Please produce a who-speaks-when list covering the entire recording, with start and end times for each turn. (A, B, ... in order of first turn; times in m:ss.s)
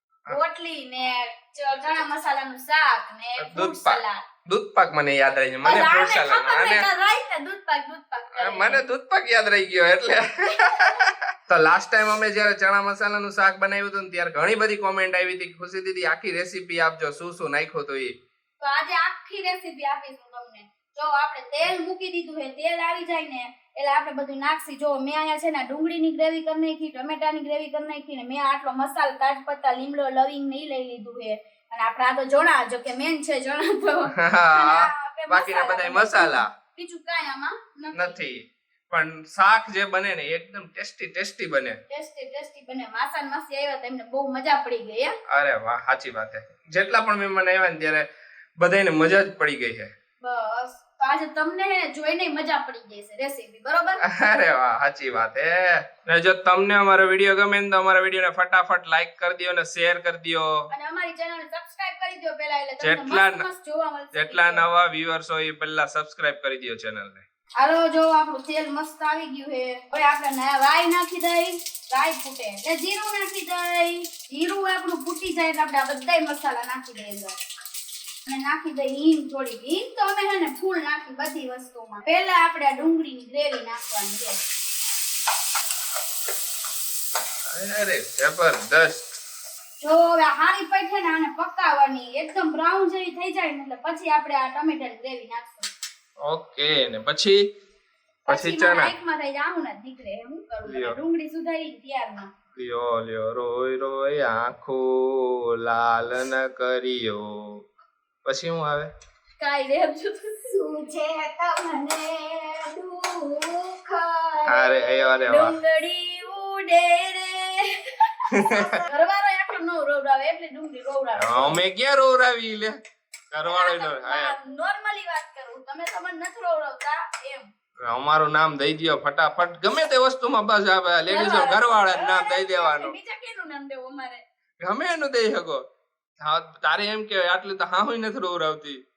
0:00.3-0:04.2 A
0:03.4-0:06.9 B
0:05.6-0:08.8 A
0:08.3-0:18.1 B
0:10.5-0:11.1 A
0:18.6-0:38.2 A
0:34.1-0:36.5 B
0:37.9-0:41.8 B
0:41.9-0:45.2 A
0:45.3-0:49.9 B
0:50.2-0:54.0 A
0:54.0-1:00.7 B
1:00.7-1:04.6 A
1:02.8-1:03.5 B
1:04.1-1:07.2 B
1:07.6-1:17.3 A
1:18.2-1:24.4 A
1:27.5-1:29.1 B
1:29.8-1:35.7 A
1:36.2-1:37.5 B
1:38.2-1:42.3 A
1:38.3-1:38.9 B
1:40.6-1:41.0 B
1:42.6-1:47.6 B
1:48.2-1:48.9 B
1:49.4-1:50.5 A
1:50.4-1:54.8 C
1:54.4-1:55.6 B
1:55.3-1:58.3 A
1:58.3-1:58.8 B
1:58.5-1:58.9 C
1:58.8-2:01.6 A
2:01.2-2:02.8 B
2:03.3-2:04.3 B
2:03.4-2:07.5 A
2:07.8-2:12.9 B
2:11.1-2:14.2 A
2:14.6-2:15.6 B
2:16.2-2:18.8 B